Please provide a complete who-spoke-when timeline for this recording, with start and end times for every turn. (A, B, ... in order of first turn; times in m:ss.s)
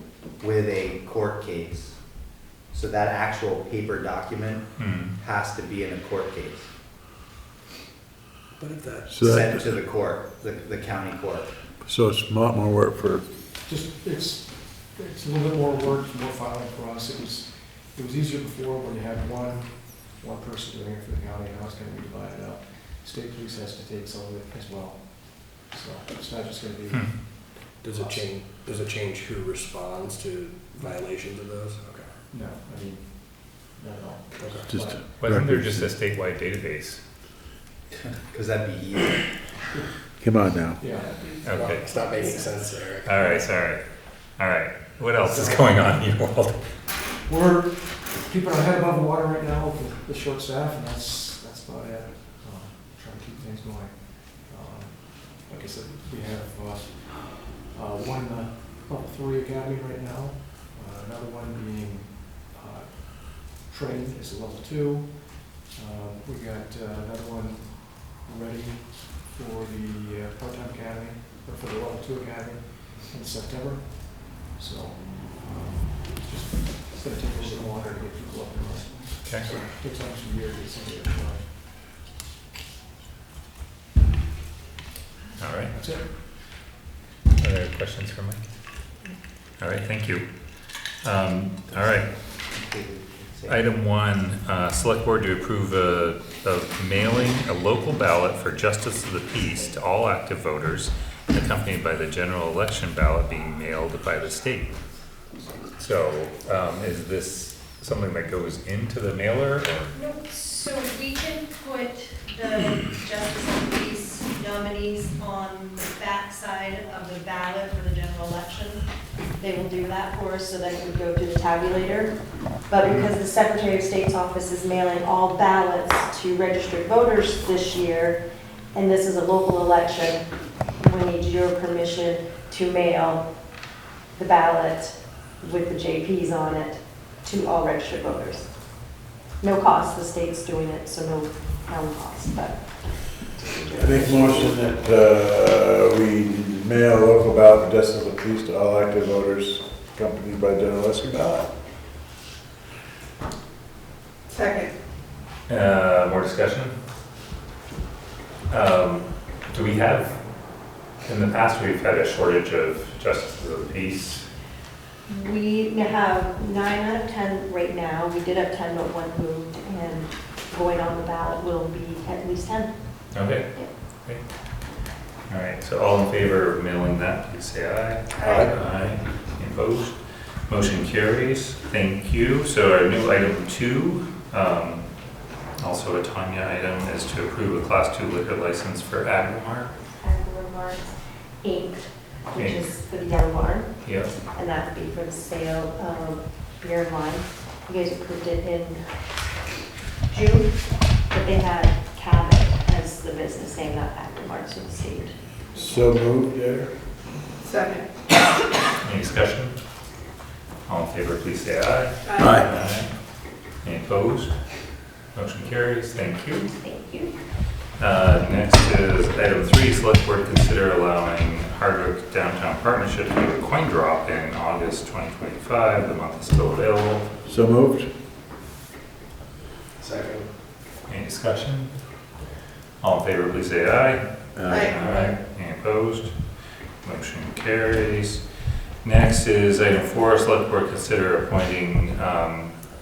0:00.4-0:02.0 A
0:02.7-0:06.7 A
0:04.8-0:05.2 B
0:08.6-0:09.6 C
0:09.1-0:09.6 D
0:09.2-0:11.5 A
0:11.8-0:13.3 D
0:13.6-0:28.3 E
0:27.8-0:32.1 C
0:32.3-0:35.0 E
0:34.4-0:34.8 C
0:34.7-0:35.9 D
0:35.2-0:37.0 B
0:38.3-0:39.2 A
0:40.2-0:40.8 D
0:40.8-0:41.1 E
0:41.4-0:41.9 B
0:41.4-0:43.5 C
0:43.0-0:43.8 B
0:44.4-0:46.6 B
0:45.2-0:45.8 E
0:47.3-1:21.6 E
1:25.4-1:25.8 B
1:25.7-1:26.1 E
1:27.4-1:28.4 B
1:29.6-1:30.3 B
1:31.0-1:32.1 B
1:32.5-1:33.6 A
1:33.5-1:44.8 B
1:45.8-1:49.9 B
1:49.9-1:58.9 F
1:59.4-2:02.2 F
2:02.7-2:08.2 F
2:02.8-2:03.1 B
2:08.7-2:10.2 F
2:10.8-2:13.2 F
2:14.2-2:18.6 F
2:19.4-2:24.6 F
2:23.8-2:31.6 D
2:34.3-2:34.7 G
2:35.5-2:36.8 B
2:38.5-2:40.2 B
2:41.0-2:44.2 B
2:45.1-2:53.7 F
2:53.1-2:54.2 B
2:55.3-3:04.9 B
2:58.2-2:58.5 G
3:05.6-3:09.7 B
3:10.0-3:18.8 F
3:12.4-3:12.7 B
3:13.8-3:14.2 B
3:20.1-3:20.6 F
3:21.1-3:25.8 F
3:25.5-3:26.8 D
3:27.4-3:27.9 G
3:28.8-3:29.6 B
3:30.7-3:33.0 B
3:32.1-3:32.4 G
3:32.2-3:32.4 D
3:33.6-3:34.3 B
3:35.1-3:36.5 B
3:36.4-3:37.1 F
3:37.8-3:47.1 B
3:47.3-3:47.9 D
3:49.8-3:50.3 C
3:50.9-3:51.8 B
3:52.8-3:58.2 B
3:54.4-3:54.8 D
3:54.5-3:54.8 G
3:58.8-4:02.5 B